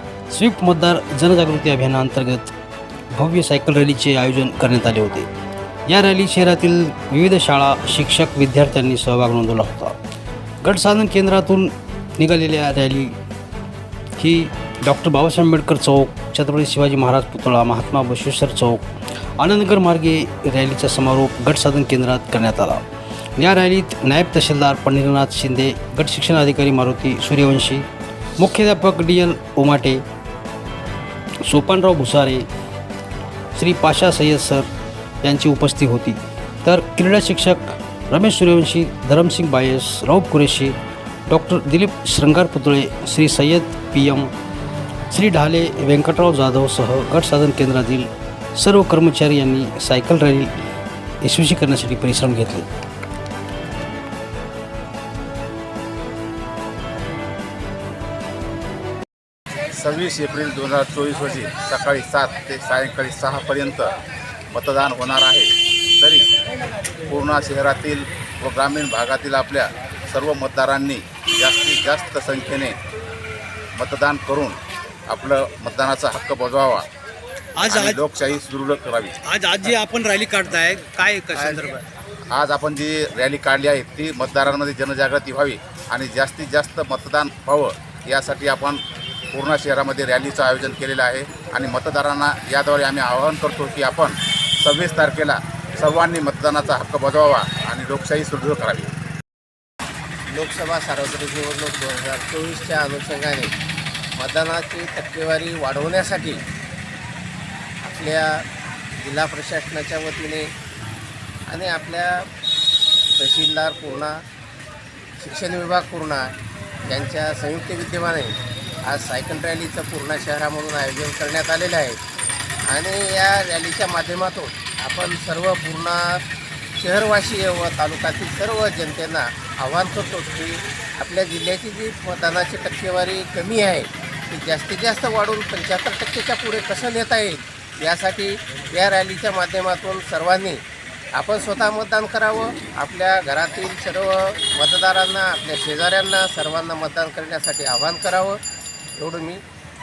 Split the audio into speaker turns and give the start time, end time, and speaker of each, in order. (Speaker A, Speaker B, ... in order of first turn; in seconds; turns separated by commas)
Speaker A: 0.3-2.5, Speaker A: 3.1-5.3, Speaker A: 5.9-9.9, Speaker A: 10.6-13.1, Speaker A: 14.2-18.8, Speaker A: 19.4-22.8, Speaker A: 23.4-27.9, Speaker A: 28.4-30.0, Speaker A: 31.4-32.5, Speaker A: 33.5-34.7, Speaker A: 35.2-40.8, Speaker A: 41.3-44.3, Speaker A: 45.1-50.5, Speaker A: 51.2-52.7, Speaker B: 59.7-63.9, Speaker B: 64.5-66.2, Speaker B: 67.0-72.8, Speaker B: 73.8-74.6, Speaker B: 75.1-76.9, Speaker A: 77.6-78.0, Speaker B: 77.7-79.2, Speaker A: 79.2-81.8, Speaker B: 82.3-88.8, Speaker B: 89.3-98.9, Speaker C: 100.3-103.5, Speaker C: 104.2-106.4, Speaker C: 107.8-108.4, Speaker C: 109.0-110.5, Speaker C: 111.5-112.2, Speaker C: 113.2-114.1, Speaker C: 115.2-116.3, Speaker C: 116.9-118.3, Speaker C: 118.9-122.0, Speaker C: 122.7-126.2, Speaker C: 126.8-140.6, Speaker C: 141.2-148.4, Speaker C: 149.0-149.4